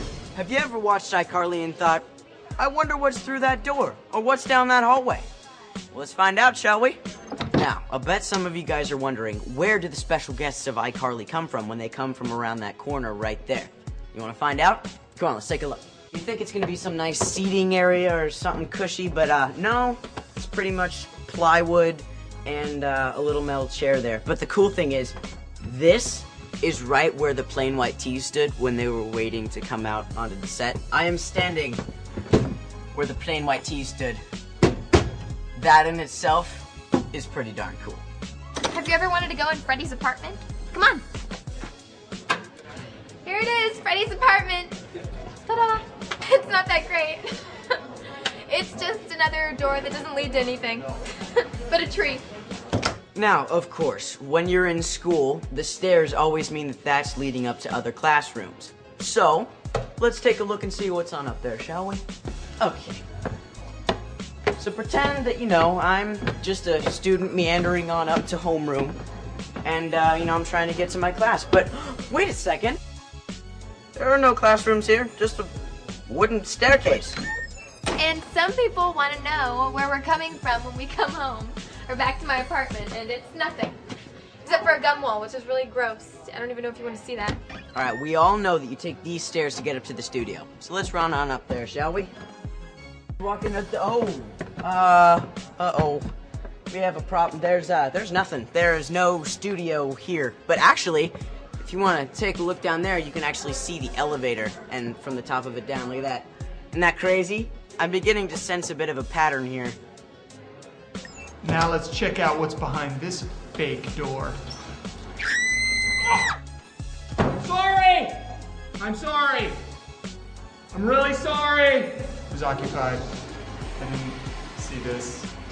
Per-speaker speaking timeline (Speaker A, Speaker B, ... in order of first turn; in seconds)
Speaker A: 0.3-2.1, 2.6-5.3, 5.9-7.0, 7.5-31.8, 32.9-34.2, 35.6-38.0, 53.1-62.0, 62.6-63.0, 64.6-69.0, 69.6-72.8, 74.0-75.5, 76.1-77.2, 87.8-92.1, 93.2-96.1, 96.7-109.8
Speaker B: 38.6-41.0, 43.2-44.8, 45.4-47.8, 48.5-52.2, 78.0-83.8, 84.5-87.4
Speaker C: 111.4-114.4, 118.8-119.6, 120.7-123.1, 123.8-125.3